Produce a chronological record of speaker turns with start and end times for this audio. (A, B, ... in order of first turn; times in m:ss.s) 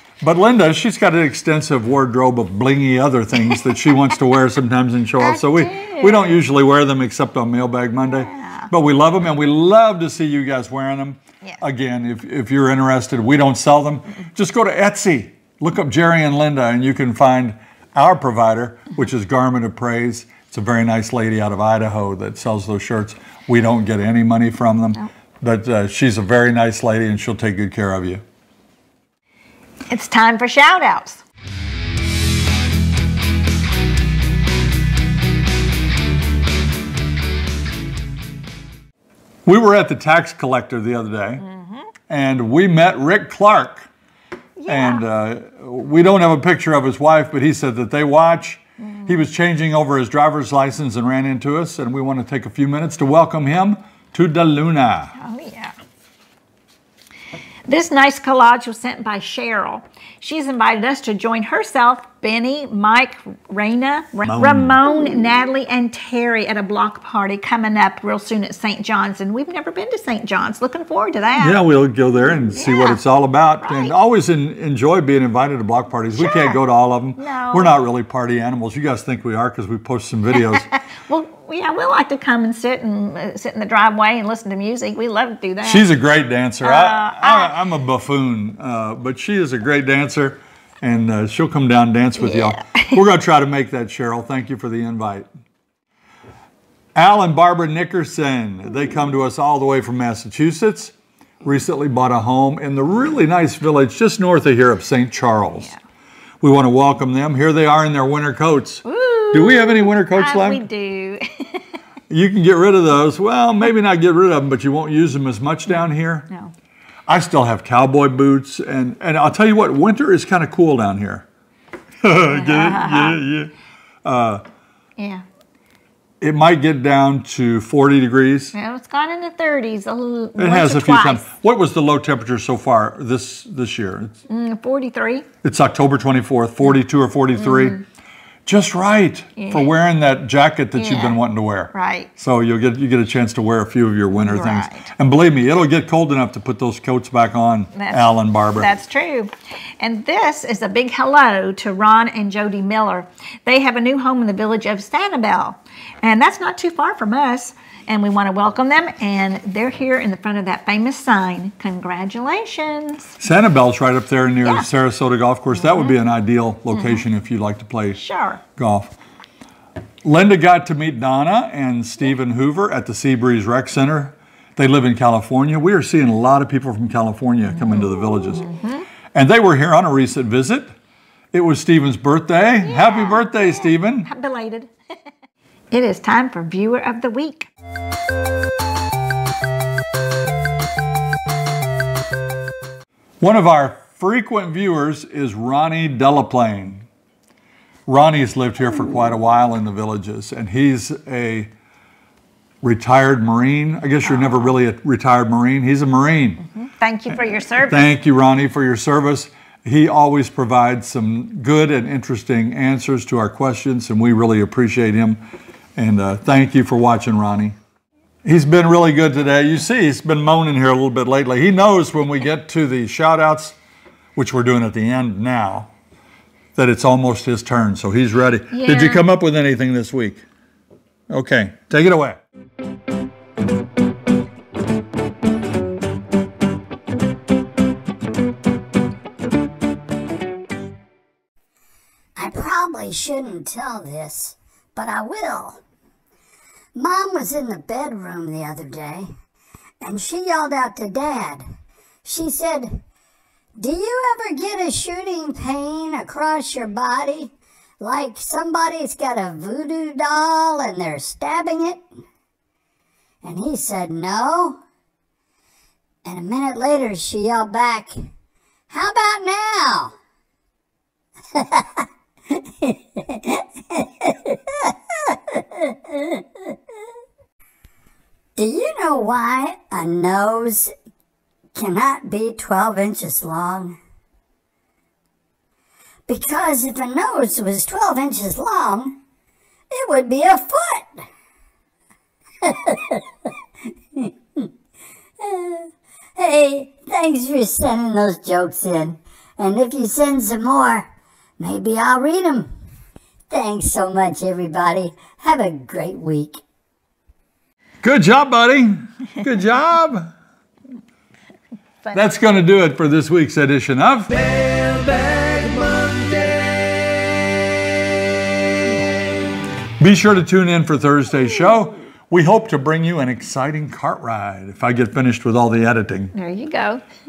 0:00.2-0:28.2 A
0:05.2-0:06.3 B
0:08.1-0:08.7 B
0:29.9-0:31.2 B
0:39.4-0:41.4 A
0:41.4-0:41.9 B
0:42.1-0:43.9 A
0:44.6-0:45.0 B
0:44.7-0:55.1 A
0:55.2-0:55.8 B
0:57.7-1:11.6 B
1:04.3-1:04.8 A
1:11.4-1:20.7 A
1:12.6-1:13.0 B
1:13.6-1:13.9 B
1:16.2-1:16.6 B
1:17.2-1:17.7 B
1:20.5-1:25.9 B
1:25.6-1:35.3 A
1:26.6-1:27.5 B
1:32.2-1:33.0 B
1:37.0-1:45.7 A
1:46.4-1:50.6 A
1:48.8-1:51.6 B
1:52.1-1:56.3 A
1:57.1-2:01.3 A
2:02.0-2:03.5 A
2:02.3-2:03.2 B
2:04.0-2:04.4 A
2:05.0-2:05.2 B
2:06.2-2:08.6 A
2:08.5-2:11.3 B
2:10.4-2:14.2 A
2:14.3-2:15.3 B
2:15.4-2:17.8 A
2:18.5-2:28.7 A
2:19.4-2:19.7 B
2:20.8-2:21.2 B
2:21.7-2:22.1 B
2:24.1-2:24.9 B
2:27.7-2:43.2 B
2:43.2-2:48.0 A
2:46.7-2:47.0 B
2:48.0-2:48.4 B
2:48.6-2:48.9 A
2:50.0-2:58.5 A
2:58.3-2:58.9 B
2:59.1-3:00.7 A
3:01.3-3:04.1 A
3:02.6-3:04.7 B
3:05.7-3:07.5 B
3:13.2-3:16.9 A
3:17.9-3:21.5 A
3:22.6-3:26.4 A
3:24.2-3:24.5 B
3:26.6-3:27.8 B
3:27.6-3:35.2 A
3:35.8-3:37.6 A
3:38.2-3:43.6 A
3:44.2-3:45.7 A
3:46.6-3:50.2 A
3:48.5-3:49.0 B
3:51.1-3:52.2 A
4:02.2-4:05.6 C
4:06.8-4:09.1 C
4:09.8-4:11.5 C
4:12.0-4:12.8 C
4:13.6-4:21.9 C
4:23.2-4:24.6 C
4:26.0-4:28.1 C
4:28.7-4:30.0 C
4:31.3-4:36.5 C
4:38.4-4:40.8 C
4:41.6-4:43.8 C
4:46.1-4:49.0 C
4:49.7-4:51.0 C
4:52.4-4:53.0 C
4:54.0-4:54.5 C
4:55.2-5:00.9 C
5:01.4-5:02.5 C
5:03.3-5:06.4 C
5:07.8-5:10.1 A
5:11.9-5:14.1 A
5:14.1-5:18.0 D
5:18.6-5:19.2 D
5:19.8-5:26.1 A
5:26.2-5:26.8 B